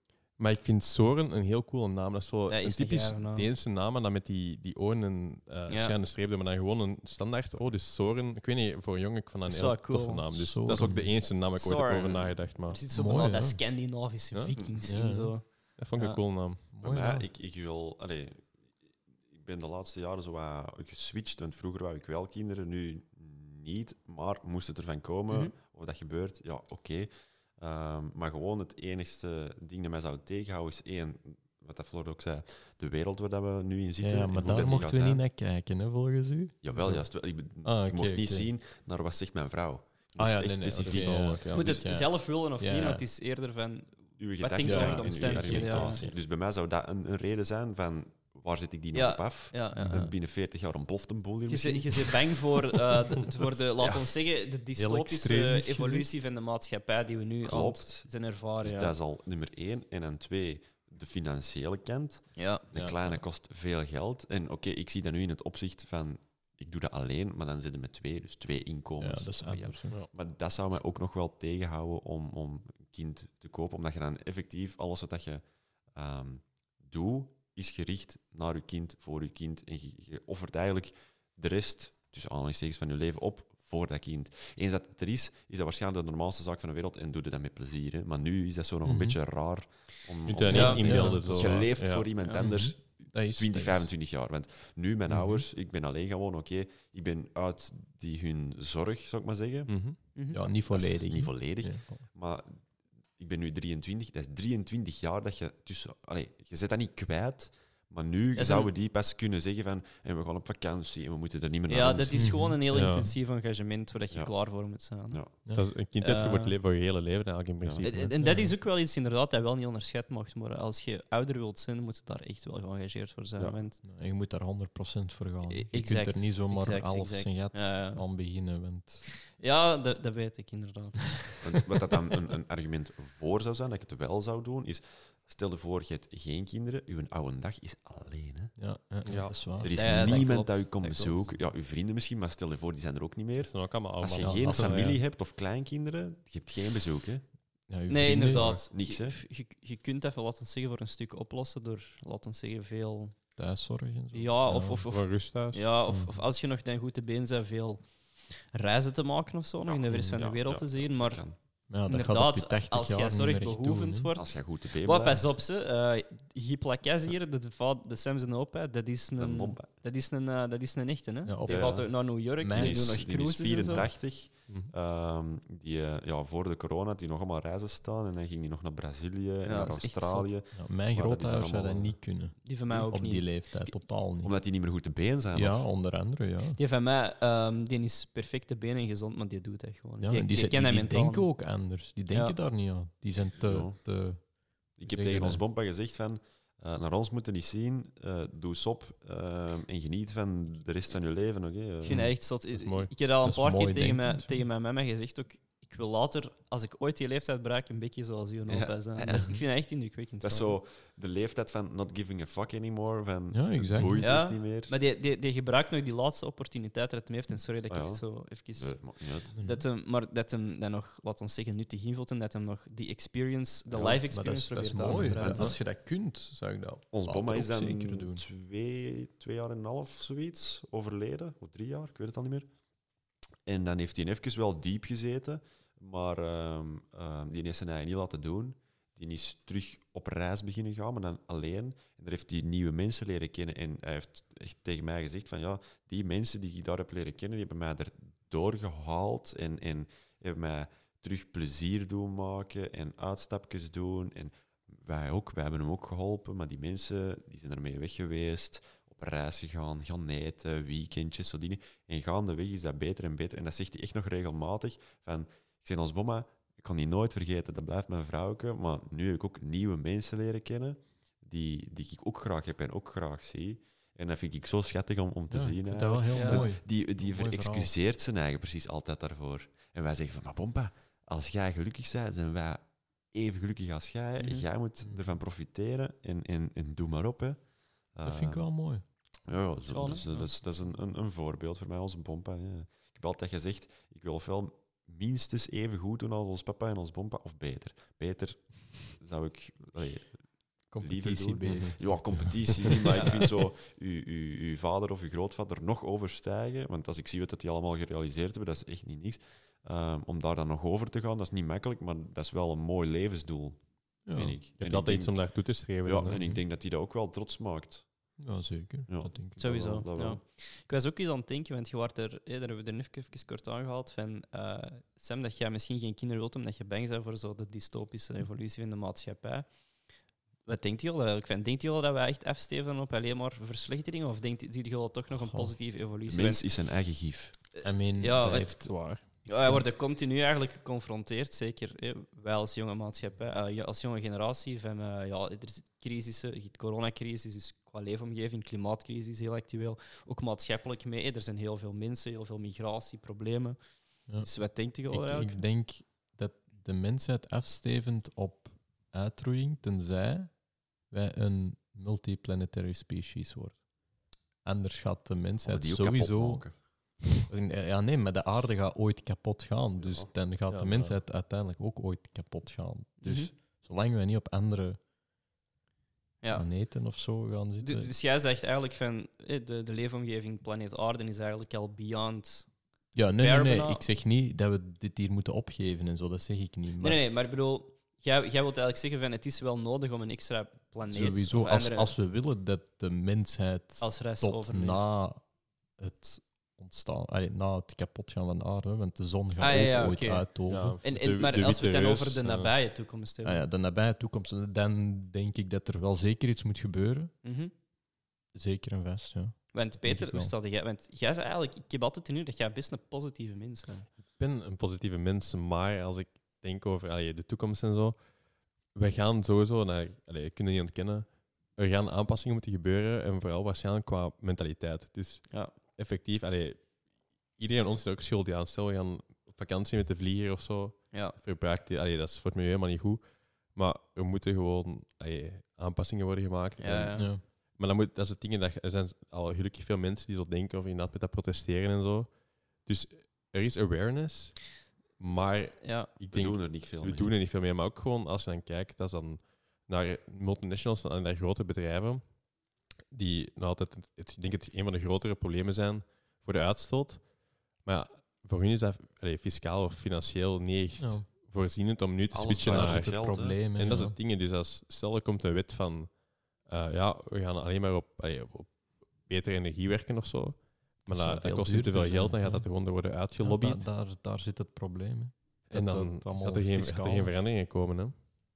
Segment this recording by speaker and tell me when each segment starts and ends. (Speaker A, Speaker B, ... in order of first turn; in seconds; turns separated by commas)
Speaker A: 0.3-12.8, Speaker B: 2.5-3.5, Speaker B: 5.7-6.0, Speaker B: 9.5-16.2, Speaker C: 10.3-11.1, Speaker C: 12.9-13.6, Speaker D: 14.5-14.8, Speaker C: 14.8-15.3, Speaker A: 15.8-16.6, Speaker C: 16.7-17.3, Speaker D: 16.8-18.6, Speaker D: 19.3-35.2, Speaker C: 34.0-37.1, Speaker D: 36.6-41.8, Speaker C: 37.6-38.5, Speaker C: 40.1-43.0, Speaker A: 40.9-41.6, Speaker B: 41.5-46.0, Speaker D: 44.2-52.2, Speaker C: 44.6-46.1, Speaker B: 48.9-50.1, Speaker C: 49.8-50.1, Speaker B: 51.5-58.9, Speaker D: 53.5-54.1, Speaker C: 54.8-56.2, Speaker D: 57.4-58.1, Speaker D: 58.6-99.7, Speaker B: 62.4-62.6, Speaker C: 69.0-70.0, Speaker C: 88.8-89.2, Speaker A: 90.3-92.0, Speaker C: 90.5-91.5, Speaker B: 90.5-91.0, Speaker C: 92.4-93.9, Speaker C: 95.1-95.4, Speaker A: 99.7-100.0, Speaker B: 100.1-100.4, Speaker C: 100.3-102.0, Speaker D: 100.7-102.6, Speaker D: 103.2-112.3, Speaker B: 108.3-108.7, Speaker B: 111.7-115.4, Speaker C: 112.2-113.1, Speaker A: 112.7-113.1, Speaker C: 115.5-115.7, Speaker A: 115.5-118.1, Speaker B: 116.0-116.5, Speaker B: 117.8-123.8, Speaker C: 117.9-118.5, Speaker C: 123.8-129.1, Speaker B: 125.5-128.0, Speaker B: 129.1-131.4, Speaker D: 131.4-138.5, Speaker C: 138.6-140.3, Speaker A: 139.0-139.3, Speaker D: 139.6-147.2, Speaker B: 139.7-141.3, Speaker A: 143.4-144.9, Speaker C: 144.2-145.0, Speaker C: 147.7-148.6, Speaker B: 147.9-153.1, Speaker A: 148.3-148.6, Speaker D: 148.7-149.2, Speaker C: 153.4-154.8, Speaker B: 154.1-157.8, Speaker A: 154.9-155.7, Speaker C: 155.9-156.2, Speaker B: 158.5-161.2, Speaker D: 159.7-161.3, Speaker C: 159.9-160.2, Speaker C: 161.7-164.1, Speaker B: 161.9-173.9, Speaker D: 164.1-165.3, Speaker D: 169.2-169.7, Speaker C: 171.2-173.0, Speaker D: 171.5-182.0, Speaker B: 179.4-180.3, Speaker C: 180.5-184.3, Speaker B: 182.4-183.7, Speaker D: 184.2-185.7, Speaker C: 185.3-186.6, Speaker B: 186.6-191.3, Speaker C: 190.0-195.4, Speaker D: 193.4-193.8, Speaker D: 194.8-202.0, Speaker B: 201.8-210.5, Speaker A: 202.5-202.9, Speaker C: 203.2-204.4, Speaker D: 208.5-209.3, Speaker C: 209.1-209.4, Speaker D: 210.2-214.7, Speaker C: 213.3-214.1, Speaker B: 214.0-218.8, Speaker D: 217.7-218.0, Speaker D: 218.6-219.3, Speaker C: 219.3-219.7, Speaker B: 219.4-225.5, Speaker D: 223.7-224.0, Speaker C: 224.1-228.2, Speaker D: 225.2-225.5, Speaker D: 226.9-232.5, Speaker D: 233.4-287.4, Speaker C: 275.3-277.7, Speaker B: 276.1-276.4, Speaker B: 284.2-284.4, Speaker D: 287.9-288.5, Speaker C: 288.0-288.8, Speaker D: 289.3-315.2, Speaker B: 289.7-290.3, Speaker C: 300.7-303.1, Speaker A: 301.4-301.7, Speaker B: 302.9-303.2, Speaker C: 314.1-314.4, Speaker A: 314.6-316.2, Speaker D: 315.8-317.9, Speaker C: 318.2-319.4, Speaker D: 318.9-320.2, Speaker B: 319.4-329.5, Speaker B: 330.4-336.4, Speaker C: 335.1-335.6, Speaker D: 336.1-337.4, Speaker B: 337.5-353.6, Speaker C: 337.6-339.6, Speaker B: 354.1-355.4, Speaker C: 354.9-363.6, Speaker C: 364.4-374.8, Speaker D: 365.4-366.6, Speaker D: 369.8-370.1, Speaker A: 370.5-371.0, Speaker B: 373.0-373.3, Speaker B: 376.2-376.5, Speaker C: 376.3-377.9, Speaker B: 377.6-382.5, Speaker C: 382.9-387.0, Speaker B: 383.2-383.8, Speaker B: 386.8-391.9, Speaker C: 390.9-395.2, Speaker B: 393.8-394.9, Speaker C: 395.8-400.8, Speaker B: 399.4-403.4, Speaker A: 400.5-402.5, Speaker C: 403.2-407.1, Speaker B: 407.2-407.5, Speaker C: 408.3-410.3, Speaker B: 409.5-413.9, Speaker A: 414.1-418.1, Speaker A: 418.7-426.7, Speaker A: 427.3-452.1, Speaker B: 436.6-437.1, Speaker C: 436.9-437.2, Speaker B: 445.6-445.9, Speaker D: 446.1-447.1, Speaker A: 452.9-457.1, Speaker A: 457.6-462.9, Speaker C: 460.8-461.1, Speaker D: 462.1-463.4, Speaker C: 462.3-463.9, Speaker A: 463.6-473.6, Speaker C: 470.9-472.5, Speaker C: 473.2-477.2, Speaker A: 475.5-478.0